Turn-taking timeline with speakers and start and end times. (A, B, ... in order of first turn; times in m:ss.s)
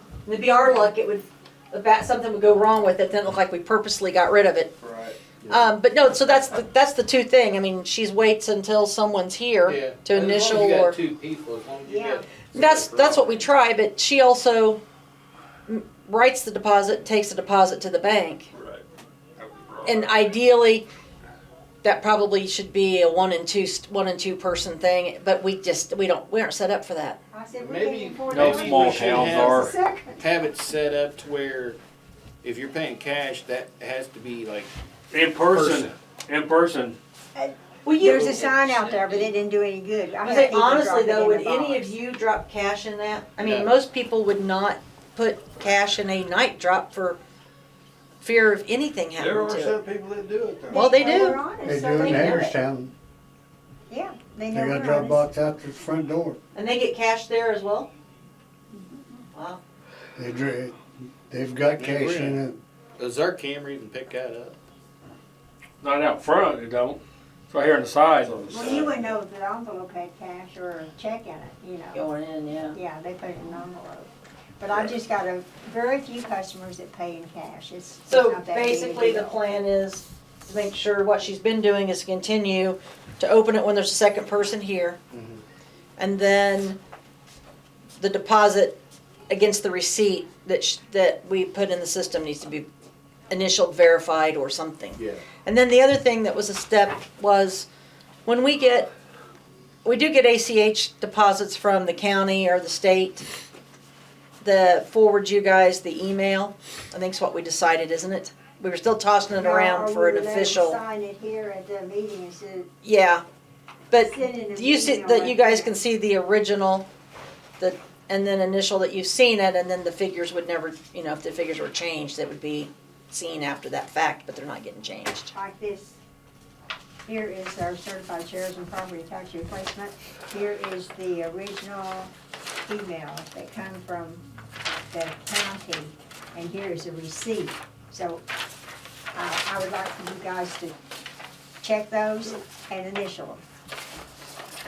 0:00.2-0:04.7 A
0:04.8-0:05.2 B
0:05.5-0:11.0 A
0:09.6-0:13.5 C
0:11.8-0:12.2 D
0:12.5-0:14.8 A
0:15.7-0:18.5 A
0:18.5-0:18.8 B
0:19.4-0:20.1 B
0:19.8-0:20.8 A
0:21.8-0:27.2 A
0:27.3-0:30.2 D
0:27.6-0:29.6 C
0:28.2-0:29.7 E
0:30.2-0:31.8 C
0:32.4-0:34.7 C
0:35.1-0:37.0 E
0:35.4-0:35.9 C
0:37.3-0:41.9 D
0:37.8-0:38.4 A
0:38.5-0:39.1 C
0:40.2-0:47.2 A
0:43.4-0:43.7 C
0:48.2-0:49.7 A
0:49.2-0:51.0 B
0:50.7-0:52.6 D
0:50.7-0:52.5 A
0:51.6-0:52.9 F
0:53.9-0:55.3 D
0:54.5-0:56.4 F
0:56.5-0:57.9 A
0:58.7-0:59.2 D
0:59.3-0:59.6 A
1:00.2-1:02.6 F
1:01.8-1:02.4 C
1:03.0-1:04.6 C
1:05.8-1:08.4 E
1:08.2-1:09.2 B
1:08.5-1:12.1 D
1:11.9-1:12.8 A
1:12.7-1:19.4 D
1:14.7-1:15.0 B
1:18.0-1:25.0 A
1:25.1-1:25.4 C
1:26.0-1:26.8 A
1:28.0-1:28.8 A
1:29.3-1:32.7 A
1:33.3-1:37.7 A
1:35.0-1:35.2 C
1:38.2-1:38.9 A
1:39.8-1:43.2 A
1:44.4-1:50.8 A
1:49.3-1:52.7 D
1:52.8-1:53.2 A
1:53.9-1:56.9 A
1:54.0-1:55.8 D
1:57.6-2:05.3 A
2:05.3-2:06.0 D
2:07.0-2:12.1 D
2:12.7-2:14.2 D
2:14.9-2:18.2 D
2:19.1-2:20.7 D
2:21.6-2:23.4 D